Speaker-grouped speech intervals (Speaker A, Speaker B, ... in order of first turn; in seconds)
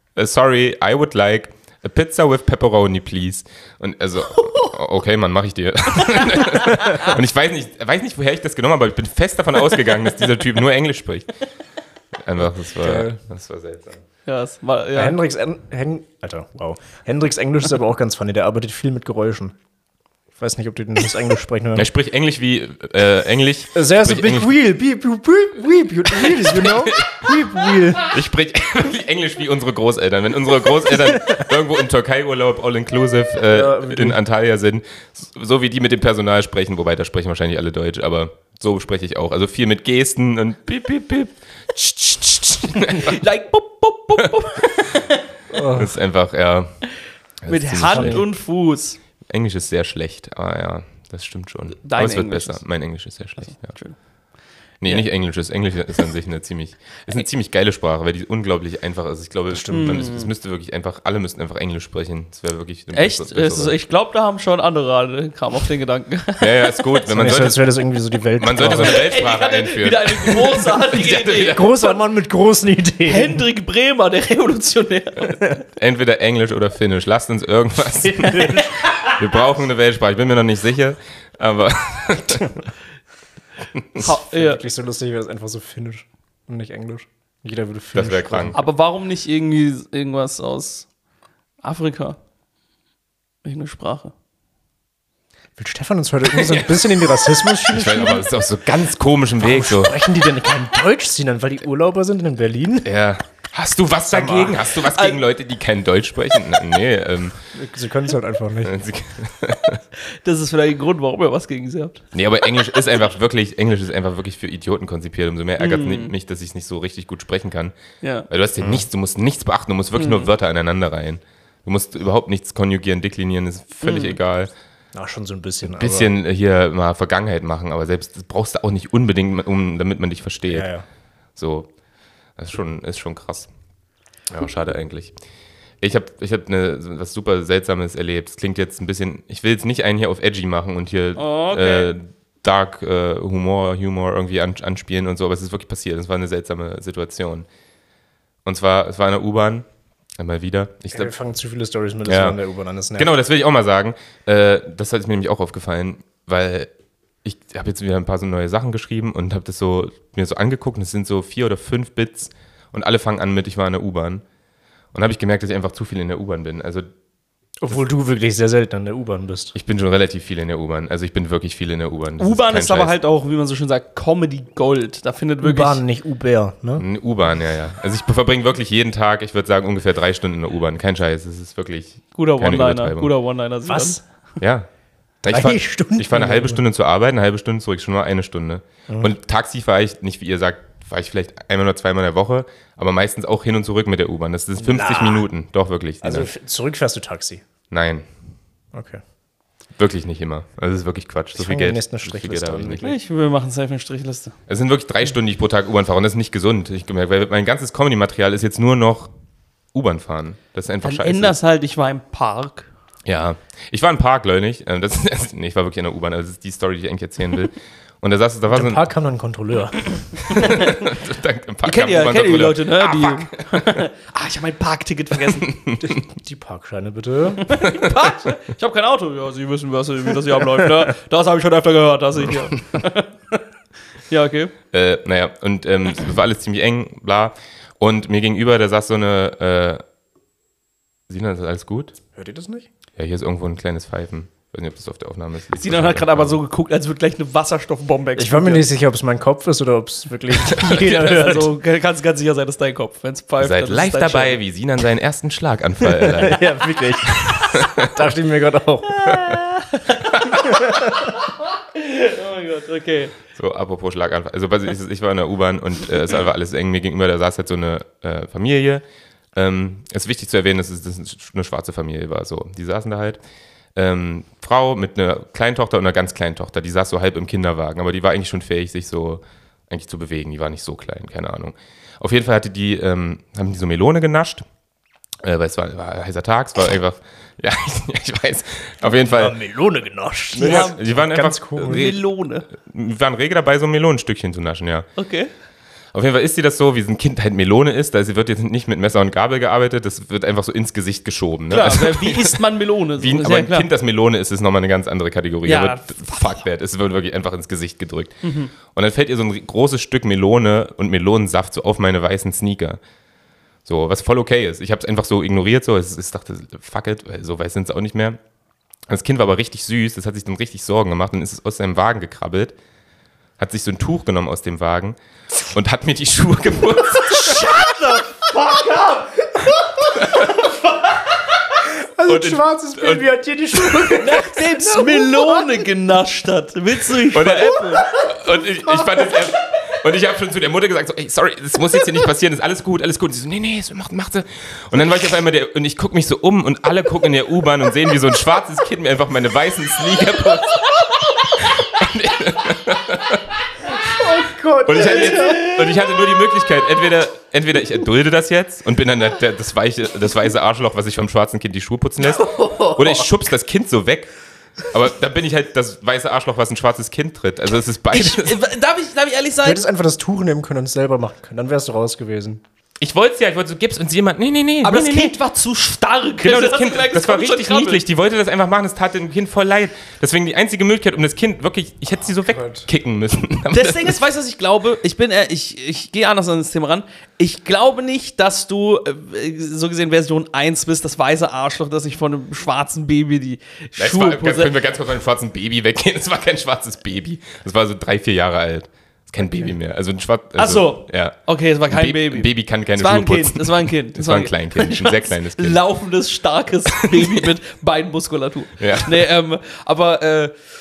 Speaker A: 0.1-11.3, 12.1-14.0, 21.7-24.5, 26.1-27.3, 28.0-43.2, 45.7-46.8, 47.4-48.2, 49.2-53.7, 54.8-63.8, 66.4-67.6, 68.4-71.7, 75.7-82.6, 83.8-84.0, 87.9-88.6, 96.3-100.0, 102.8-107.4, 108.6-109.8, 112.1-117.7, 118.3-124.5, 125.6-130.7, 131.3-131.7, 132.4-133.5, 134.3-135.1, 135.8-147.5, 148.4-149.7, 150.2-151.1, 152.1-152.4, 153.0-156.7, 157.2-164.2, 164.9-166.9, 169.5-172.9, 176.8-183.1, 184.4-184.7, 185.2-196.3, 197.7-198.1, 199.8-202.9, 204.5-209.1, 209.7-211.3, 213.0-218.9, 220.3-223.8, 225.2-226.0, 227.6-228.1, 234.7-239.8, 241.1-241.9, 242.9-246.4, 253.4-256.6, 257.2-257.9, 263.3-273.2, 273.7-284.4, 285.2-289.4, 290.3-291.9, 292.5-294.9, 295.9-312.8, 313.6-318.2, 318.9-322.5, 323.4-327.5, 329.9-330.3, 332.1-333.9, 337.1-354.1, 354.6-364.1, 364.6-368.4, 372.8-375.2, 376.2-384.0, 393.8-405.6, 406.8-407.3, 408.6-409.1
Speaker B: 4.4-4.7, 6.1-7.2, 14.2-15.2, 42.7-45.2, 47.5-49.0, 51.8-52.6, 53.4-54.0, 59.7-60.3, 62.9-67.0, 68.8-72.0, 73.1-75.5, 78.1-79.2, 84.0-84.6, 88.5-90.9, 91.6-92.2, 93.4-94.1, 104.8-105.2, 110.2-112.8, 115.6-116.1, 118.0-118.3, 120.0-120.3, 123.8-124.2, 141.2-141.9, 172.2-175.8, 182.1-184.0, 202.8-204.3, 210.8-212.7, 220.3-220.9, 221.6-225.6, 227.4-233.4, 234.1-234.5, 245.6-248.7, 250.5-254.4, 258.9-263.1, 290.4-290.8, 291.6-292.4, 294.9-295.3, 301.5-303.7, 305.4-306.4, 308.2-308.5, 326.9-331.0, 333.9-337.9, 367.9-369.6, 374.6-377.8, 383.5-394.5, 400.4-410.3
Speaker C: 12.8-13.2, 14.9-19.5, 20.4-21.9, 23.7-28.1, 33.5-34.2, 45.5-45.9, 47.8-48.2, 59.5-60.1, 67.1-69.1, 71.5-73.4, 78.3-78.6, 84.0-88.6, 95.6-98.3, 99.4-102.9, 104.1-104.6, 107.5-108.8, 118.6-118.8, 124.9-126.1, 130.5-130.8, 150.9-153.1, 167.6-169.6, 175.4-176.8, 183.7-184.0, 185.3-186.6, 188.9-189.1, 194.6-195.3, 196.0-197.4, 198.7-199.0, 201.4-202.9, 218.5-220.4, 225.8-227.6, 242.1-242.7, 248.2-251.5, 255.9-259.3, 260.4-261.0, 288.9-291.9, 331.9-335.7, 353.7-356.0, 362.3-363.0, 369.4-372.4, 382.2-382.7